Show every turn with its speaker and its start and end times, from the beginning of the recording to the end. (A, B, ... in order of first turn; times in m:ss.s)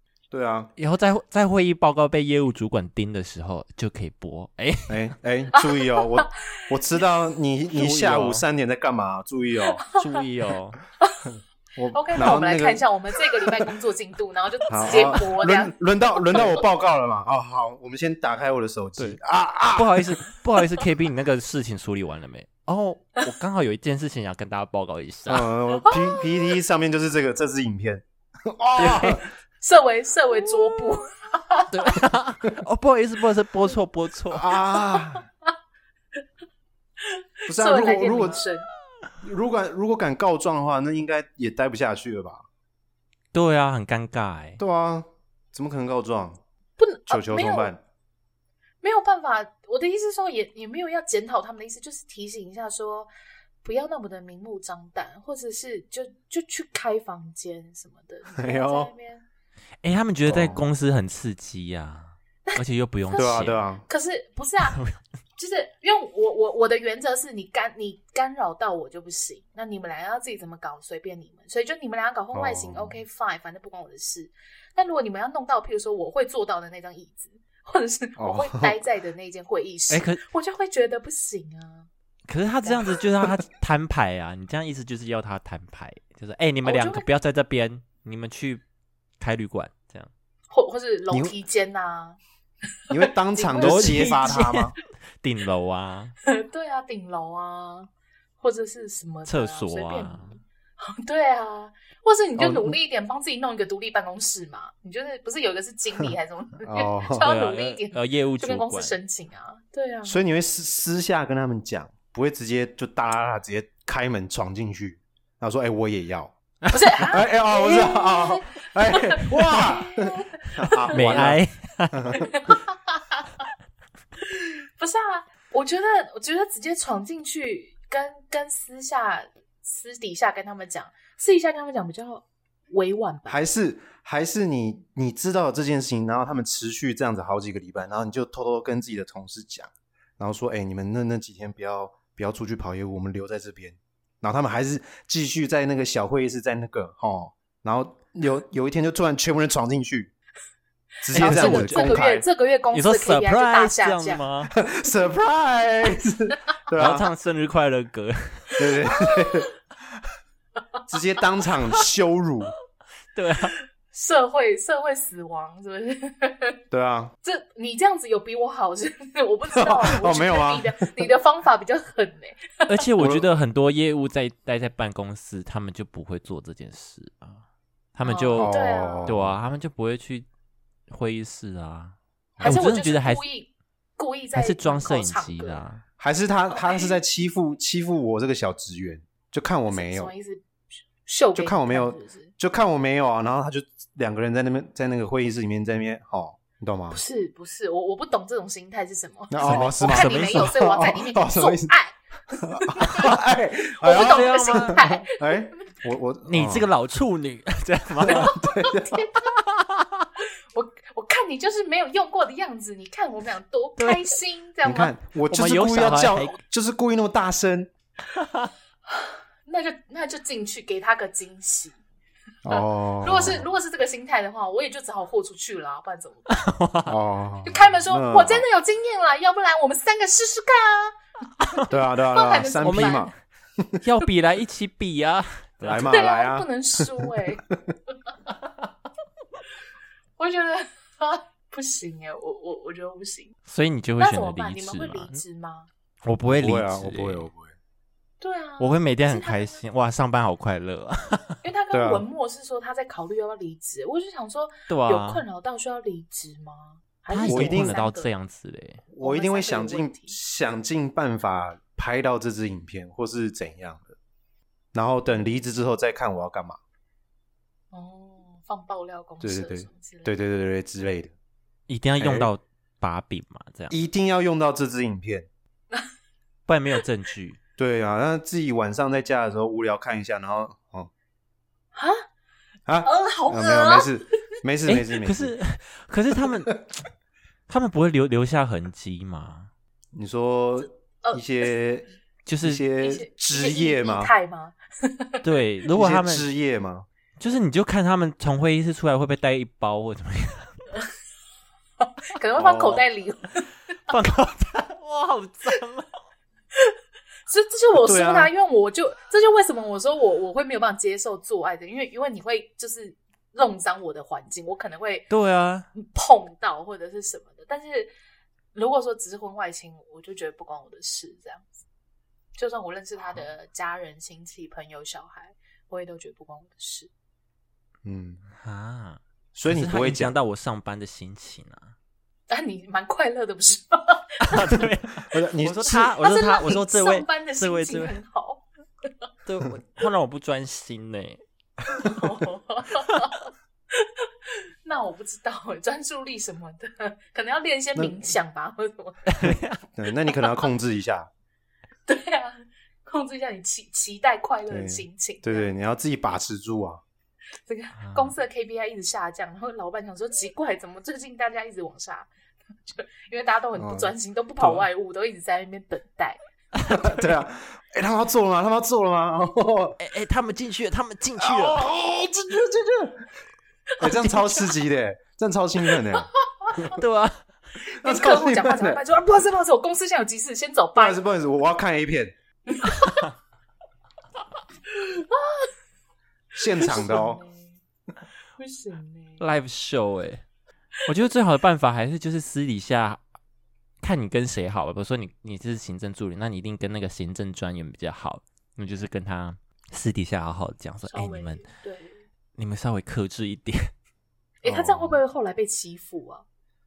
0:00.3-0:00.7 A
0:00.8-0:05.0 B
0:04.9-0:09.8 A
0:05.5-0:06.2 C
0:07.7-0:08.4 B
0:09.7-0:10.2 C
0:09.9-0:10.8 B
0:11.0-0:11.3 C
0:11.8-0:13.6 A
0:11.9-0:16.6 C
0:14.7-0:20.2 A
0:19.7-0:25.5 B
0:25.3-0:29.2 A
0:25.8-0:26.6 C
0:28.8-0:29.2 B
0:28.8-0:32.1 C
0:31.7-0:34.5 B
0:34.3-0:35.2 A
0:37.0-0:38.7 C
0:37.5-0:38.4 A
0:39.2-0:42.4 A
0:43.3-0:44.6 B
0:44.6-0:46.4 A
0:46.8-0:47.7 C
0:47.1-0:47.8 A
0:48.8-0:53.1 C
0:53.6-0:59.2 C
0:58.4-0:58.9 A
0:59.8-1:03.6 B
1:00.2-1:00.6 A
1:02.4-1:04.8 C
1:03.1-1:03.8 A
1:04.7-1:05.0 B
1:05.4-1:21.9 C
1:12.3-1:13.0 A
1:18.2-1:18.8 A
1:19.9-1:20.2 B
1:22.3-1:28.6 B
1:26.6-1:27.0 C
1:29.2-1:30.1 B
1:30.5-1:32.2 C
1:32.9-1:34.5 C
1:32.9-1:34.7 A
1:33.5-1:36.1 B
1:36.2-1:50.2 C
1:39.3-1:40.4 B
1:42.4-1:42.8 A
1:46.6-1:47.3 A
1:47.2-1:49.0 B
1:50.0-1:56.3 A
1:56.7-2:01.2 C
1:57.0-2:01.4 A
2:00.9-2:02.1 B
2:01.9-2:02.5 A
2:02.1-2:03.4 C
2:04.2-2:13.4 C
2:13.3-2:30.1 A
2:31.0-2:32.2 A
2:31.0-2:34.3 C
2:31.1-2:32.0 B
2:32.7-2:34.5 B
2:34.5-2:37.0 A
2:36.7-2:38.5 B
2:38.6-2:39.5 A
2:38.8-2:39.4 C
2:40.9-2:42.5 A
2:43.1-2:43.6 B
2:43.4-2:46.6 C
2:46.7-2:47.1 A
2:47.2-2:52.8 C
2:49.6-2:50.9 A
2:52.7-2:57.4 B
2:53.0-2:53.2 A
2:57.9-3:00.3 B
2:58.0-2:59.1 C
2:58.4-2:59.4 A
3:00.9-3:03.2 B
3:02.4-3:02.6 A
3:02.4-3:05.6 C
3:04.3-3:05.8 B
3:06.0-3:10.1 A
3:06.5-3:07.0 C
3:09.7-3:10.4 C
3:11.0-3:12.3 C
3:11.4-3:17.0 A
3:16.9-3:23.2 C
3:19.3-3:21.7 A
3:19.4-3:20.6 B
3:22.4-3:26.7 A
3:23.8-3:25.7 C
3:23.8-3:24.8 B
3:26.2-3:28.3 B
3:28.0-3:29.0 A
3:28.0-3:29.3 C
3:29.2-3:30.1 B
3:30.5-3:34.9 C
3:33.8-3:34.1 B
3:34.6-3:37.7 A
3:35.3-3:36.4 B
3:38.2-3:38.5 B
3:38.9-3:41.8 C
3:42.4-3:43.4 A
3:42.5-3:46.4 C
3:46.3-3:47.0 B
3:46.9-3:48.4 A
3:47.4-3:50.9 C
3:51.4-3:53.1 C
3:51.7-3:53.8 A
3:52.6-3:53.1 B
3:53.8-3:55.9 B
3:55.6-3:57.7 A
3:55.8-3:57.4 C
4:00.2-4:03.3 C
4:03.5-4:05.2 B
4:04.0-4:05.7 C
4:06.0-4:07.3 B
4:06.3-4:07.5 A
4:08.2-4:09.6 C
4:08.6-4:11.4 B
4:11.4-4:18.1 C
4:11.7-4:12.0 A
4:14.7-4:15.2 B
4:17.1-4:18.8 B
4:17.2-4:17.7 A
4:18.9-4:23.9 A
4:19.0-4:20.2 C
4:24.7-4:26.6 A
4:27.7-4:30.1 C
4:29.2-4:31.1 A
4:31.7-4:33.8 B
4:32.0-4:32.3 A
4:33.7-4:35.3 A
4:36.5-4:37.4 B
4:37.6-4:40.9 A
4:42.7-4:45.3 A
4:42.8-4:44.0 C
4:44.6-4:46.7 B
4:47.5-4:49.5 B
4:49.9-4:51.9 A
4:51.0-4:51.5 C
4:52.2-4:52.6 B
4:52.4-4:54.1 A
4:52.8-4:55.2 C
4:55.2-4:56.3 B
4:55.7-4:56.9 A
4:57.2-5:00.6 B
5:01.8-5:03.5 C
5:02.4-5:02.8 A
5:03.9-5:05.9 B
5:07.3-5:15.1 C
5:07.8-5:08.3 A
5:15.1-5:15.7 B
5:15.7-5:17.9 C
5:18.5-5:21.6 C
5:22.4-5:26.9 C
5:27.8-5:28.2 A
5:28.4-5:31.7 B
5:29.3-5:30.1 A
5:32.3-5:34.6 C
5:34.2-5:38.0 B
5:35.1-5:35.9 A
5:35.6-5:38.4 C
5:39.2-5:41.2 B
5:41.8-5:49.1 C
5:49.1-5:49.6 B
5:49.7-5:51.1 A
5:51.9-5:55.5 C
5:54.5-5:56.8 A
5:57.4-6:02.1 C
5:57.8-5:58.1 B
6:02.7-6:06.2 C
6:03.6-6:03.9 A
6:04.4-6:04.7 B
6:06.5-6:07.2 B
6:06.8-6:09.8 A
6:09.8-6:11.6 B
6:11.2-6:13.1 A
6:13.8-6:14.5 C
6:13.8-6:16.1 A
6:16.0-6:16.8 C
6:16.7-6:17.2 B
6:17.6-6:21.0 C
6:17.8-6:18.8 A
6:20.8-6:22.1 A
6:22.5-6:23.1 C
6:24.7-6:25.5 C
6:26.4-6:27.2 A
6:26.6-6:27.6 C
6:28.4-6:29.2 C
6:29.2-6:30.2 B
6:30.8-6:33.0 B
6:33.8-6:41.4 B
6:40.9-6:42.0 C
6:42.4-6:43.7 B
6:44.4-6:46.2 C
6:44.4-6:45.0 A